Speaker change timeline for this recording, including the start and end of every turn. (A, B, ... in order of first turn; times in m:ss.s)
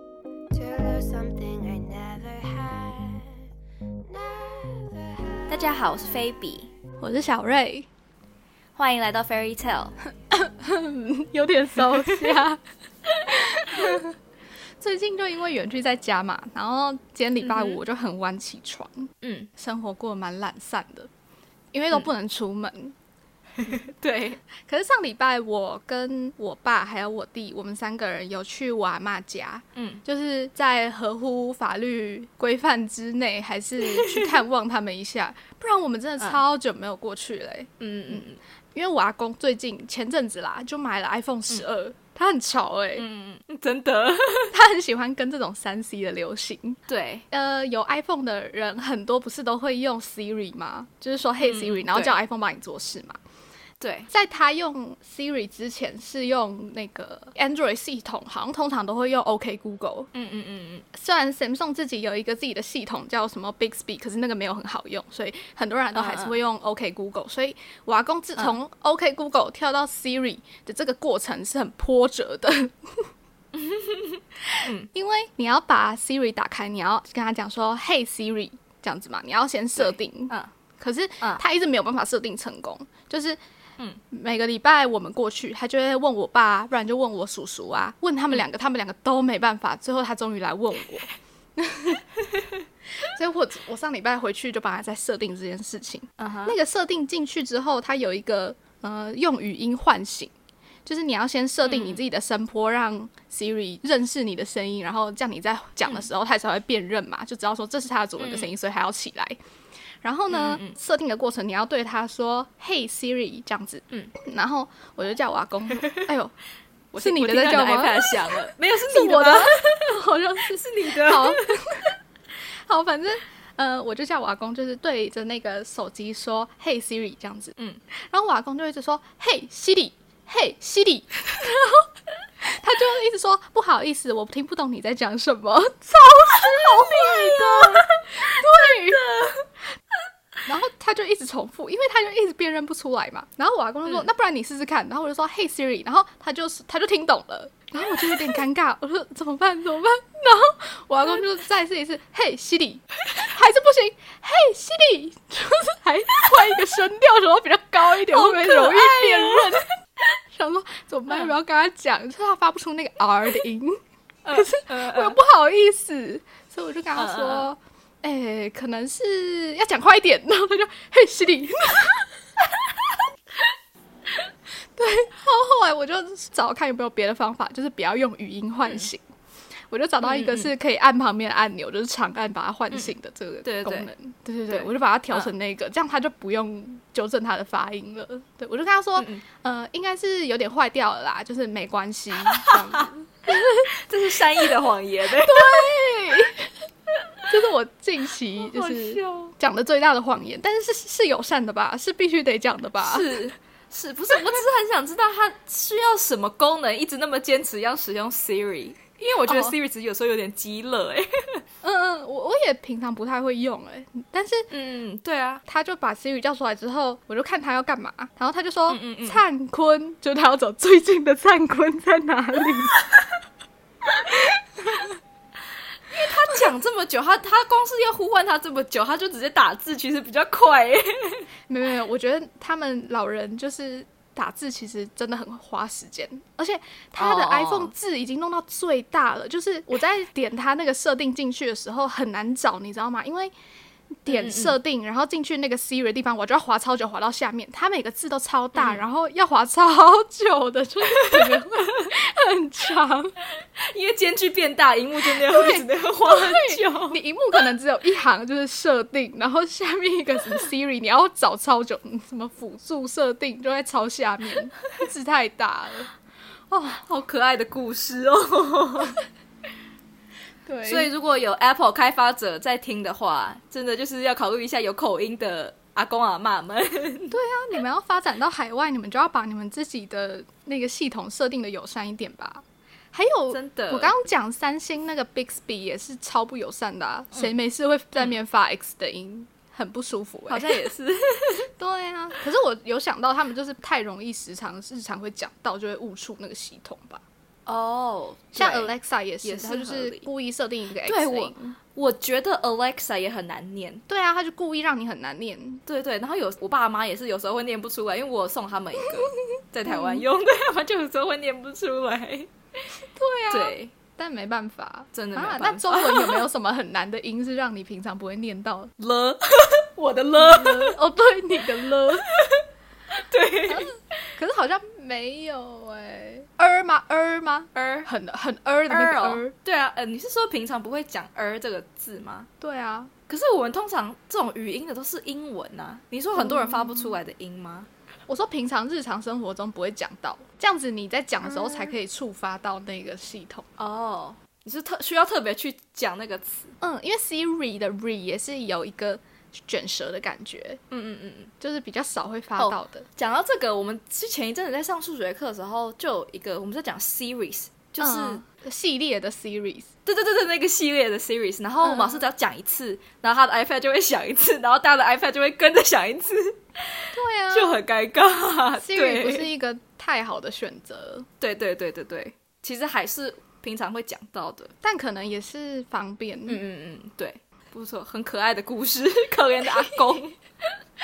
0:00.5-0:03.4 A
0:04.0-0:06.1 A
0:05.5-0:06.7 B
0:07.0-0:07.9 C
0:08.8-0:10.0 B
0:10.3-0:12.6 C
0:12.0-0:12.4 B
0:13.3-0:14.1 C
0:13.4-0:14.0 B
0:14.8-0:21.1 C
0:17.4-0:17.8 B
0:19.2-0:19.5 B
0:21.7-0:23.0 C
0:23.6-0:24.4 B
0:24.5-0:43.0 C
0:29.8-0:30.0 B
0:33.8-0:34.4 B
0:37.8-0:38.4 B
0:43.0-0:44.5 B
0:44.5-0:53.2 C
0:46.9-0:47.3 B
0:51.4-0:52.2 B
0:53.8-0:54.1 B
0:54.1-1:00.1 C
1:00.1-1:00.9 B
1:00.9-1:13.1 C
1:05.9-1:06.4 B
1:13.5-1:14.9 B
1:14.9-1:23.4 C
1:19.8-1:20.5 B
1:24.1-1:32.0 C
1:33.0-1:40.3 C
1:36.2-1:36.6 B
1:40.9-1:49.4 C
1:41.7-1:42.0 B
1:48.2-1:48.5 B
1:50.0-1:56.3 C
1:50.3-1:50.7 B
1:56.9-1:59.9 B
1:57.0-2:01.9 C
2:00.5-2:01.6 B
2:02.7-2:11.9 C
2:12.4-2:19.0 C
2:16.3-2:19.5 B
2:20.5-2:39.7 C
2:38.1-2:39.6 B
2:40.3-2:43.8 C
2:41.1-2:41.3 B
2:44.2-2:45.2 B
2:44.3-2:52.1 C
2:47.0-2:47.5 B
2:54.8-2:59.0 C
2:59.7-3:13.7 C
3:00.0-3:00.5 B
3:03.4-3:03.9 B
3:04.5-3:05.3 B
3:09.0-3:09.2 B
3:12.3-3:12.8 B
3:13.7-3:15.7 B
3:15.1-3:16.5 C
3:17.2-3:23.2 C
3:18.4-3:19.3 B
3:22.8-3:31.4 B
3:29.3-3:29.6 C
3:31.6-3:34.5 C
3:34.5-3:35.4 B
3:35.4-3:42.8 C
3:38.7-3:39.2 B
3:44.6-3:44.9 C
3:45.9-3:51.2 B
3:51.5-4:03.3 C
3:57.0-3:57.7 B
4:04.0-4:13.1 C
4:04.1-4:04.6 B
4:08.6-4:08.8 B
4:11.0-4:11.6 B
4:13.6-4:17.0 B
4:15.1-4:25.9 C
4:26.5-4:26.8 C
4:26.8-4:29.0 B
4:30.4-4:30.9 C
4:30.7-4:37.1 B
4:37.1-4:50.7 C
4:43.3-4:43.9 B
4:50.3-4:51.5 B
4:51.6-4:57.0 C
4:57.5-4:58.7 B
4:58.4-5:01.6 C
4:59.2-5:00.1 B
5:00.8-5:03.8 B
5:03.9-5:05.6 C
5:05.7-5:12.3 B
5:09.6-5:10.0 C
5:12.9-5:18.7 C
5:13.3-5:13.7 B
5:14.9-5:16.2 B
5:18.8-5:20.8 B
5:20.2-5:22.1 C
5:22.1-5:23.7 B
5:23.5-5:29.3 C
5:27.6-5:27.9 B
5:28.7-5:32.3 B
5:32.4-5:32.9 C
5:33.1-5:37.7 B
5:36.1-5:37.0 C
5:38.1-5:43.5 C
5:41.4-5:41.7 B
5:43.6-5:46.6 B
5:46.6-5:50.6 C
5:50.7-5:51.3 B
5:51.4-5:52.9 C
5:52.4-5:58.2 B
5:57.8-5:59.7 C
5:59.9-6:09.3 B
6:01.6-6:02.1 C
6:06.9-6:07.6 C
6:08.6-6:11.1 C
6:11.2-6:14.5 B
6:14.6-6:16.4 C
6:16.3-6:20.2 B